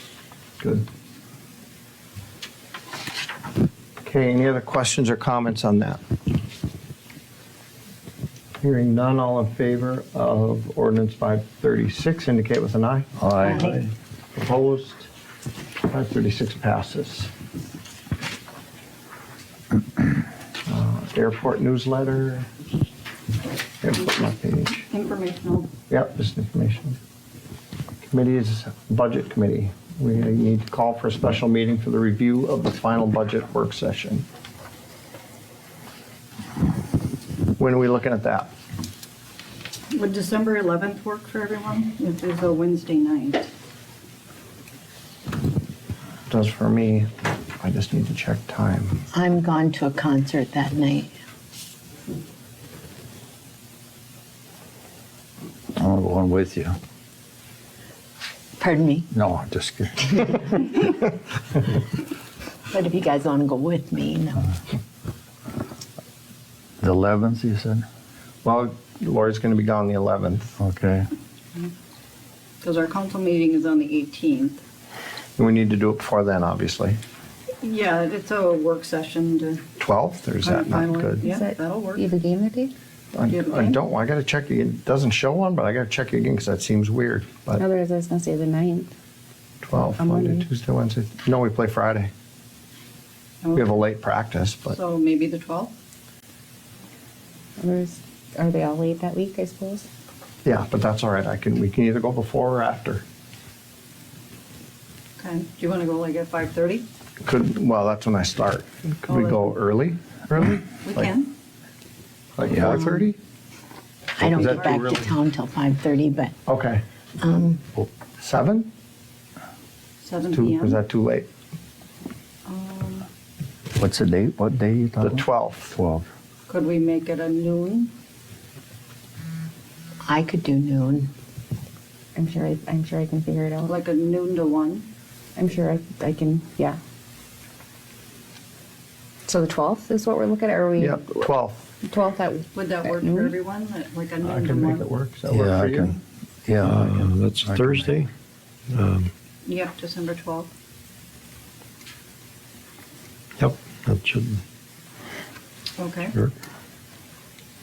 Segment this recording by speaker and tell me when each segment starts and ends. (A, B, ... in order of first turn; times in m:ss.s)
0:00.6-0:00.9 A
0:04.0-0:06.0 A
0:08.6-0:13.1 A
0:13.2-0:13.9 B
0:13.4-0:13.8 C
0:14.4-0:15.1 A
0:15.8-0:17.3 A
0:20.7-0:22.5 A
0:23.8-0:24.9 A
0:24.9-0:25.7 D
0:25.9-0:27.0 A
0:28.1-0:34.2 A
0:37.6-0:38.5 A
0:39.9-0:43.5 D
0:46.3-0:49.0 A
0:49.1-0:51.1 C
0:55.8-0:56.8 B
0:58.6-0:59.1 C
0:59.1-1:00.4 B
1:02.7-1:04.5 C
1:06.8-1:07.9 B
1:08.4-1:10.5 A
1:10.6-1:11.1 B
1:12.6-1:14.6 D
1:15.4-1:17.0 A
1:17.6-1:19.6 D
1:19.8-1:21.2 A
1:20.4-1:22.1 D
1:21.2-1:22.7 E
1:23.1-1:27.6 A
1:23.3-1:23.8 D
1:27.6-1:28.9 E
1:29.6-1:32.1 A
1:30.0-1:30.5 E
1:33.5-1:34.8 A
1:34.7-1:35.7 D
1:37.6-1:39.9 E
1:40.4-1:43.0 A
1:45.2-1:46.9 D
1:47.2-1:51.1 A
1:49.1-1:49.5 D
1:50.8-1:51.3 D
1:52.4-1:53.2 A
1:52.5-1:52.8 B
1:54.2-1:56.4 C
1:54.2-1:55.2 A
1:56.5-1:56.8 A
1:57.2-1:57.6 C
1:58.2-1:58.7 A
2:00.0-2:00.8 D
2:00.3-2:01.3 A
2:02.5-2:03.1 D
2:03.7-2:05.2 B
2:05.0-2:05.8 A
2:05.7-2:06.1 B
2:06.5-2:07.9 D
2:10.0-2:11.1 C
2:12.2-2:13.7 E
2:13.6-2:14.9 D
2:15.4-2:16.8 E
2:19.3-2:21.3 E
2:20.8-2:21.7 A
2:21.8-2:23.3 E
2:22.5-2:24.9 D
2:24.2-2:26.0 A
2:25.3-2:28.0 B
2:26.6-2:28.1 F
2:28.7-2:29.1 F
2:29.4-2:30.5 D
2:33.4-2:34.4 F
2:35.8-2:36.1 D
2:36.1-2:36.3 F